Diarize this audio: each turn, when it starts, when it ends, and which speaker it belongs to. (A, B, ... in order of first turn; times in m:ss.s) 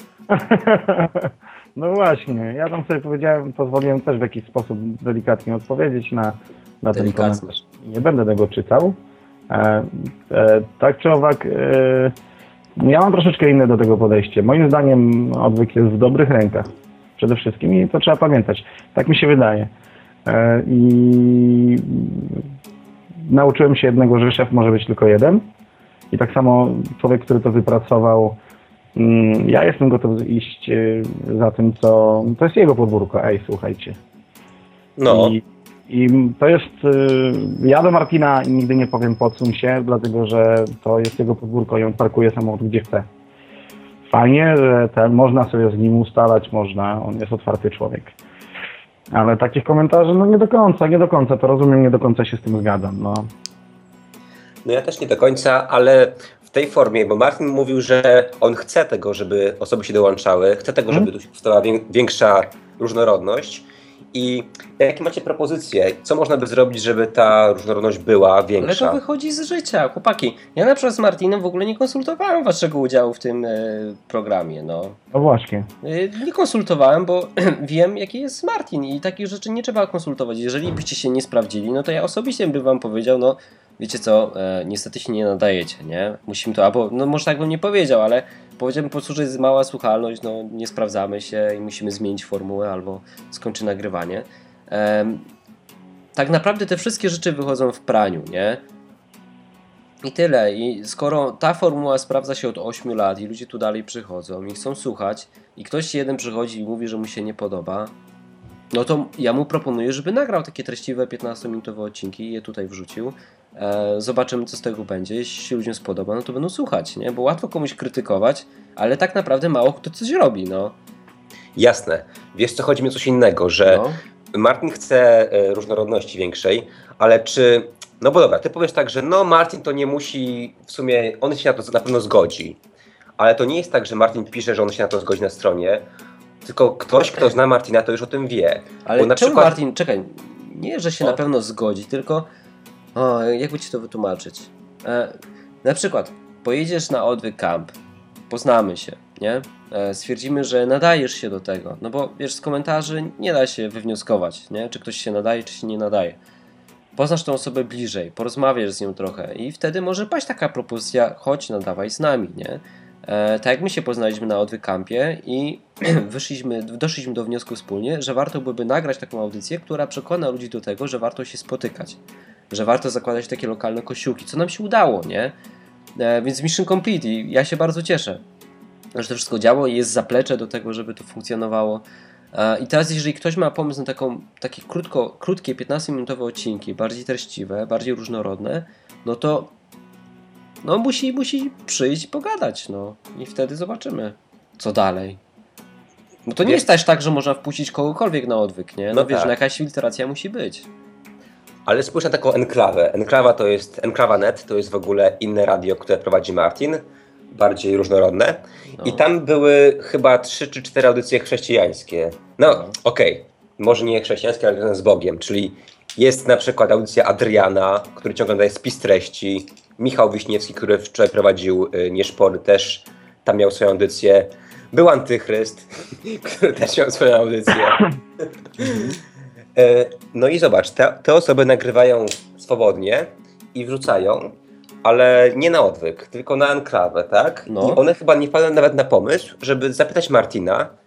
0:00.3-0:09.0 A
0:06.9-0:07.6 B
0:09.5-0:12.1 A
0:12.8-0:19.7 A
0:20.3-0:22.5 A
0:23.2-0:25.5 A
0:26.1-0:28.4 A
0:29.0-0:34.0 A
0:35.0-0:35.4 C
0:35.1-0:43.1 A
0:44.1-0:48.2 A
0:49.1-0:53.3 A
0:54.6-1:09.0 C
1:08.6-1:15.0 B
1:15.1-1:15.7 A
1:15.8-1:35.3 B
1:36.2-1:38.6 B
1:40.0-1:47.9 B
1:48.7-2:00.8 B
2:01.6-2:12.6 C
2:03.6-2:04.0 B
2:13.2-2:15.8 C
2:16.4-2:19.6 C
2:18.8-2:22.3 B
2:23.0-2:27.8 B
2:28.3-2:36.2 B
2:37.0-2:52.0 B
2:52.5-2:55.4 B
2:56.0-2:58.2 B
2:59.0-3:09.5 B
3:10.6-3:15.2 B
3:16.3-3:20.7 B
3:18.9-3:19.3 C
3:21.7-3:49.0 C
3:32.4-3:32.8 B
3:49.6-4:00.7 C
3:57.5-3:57.8 B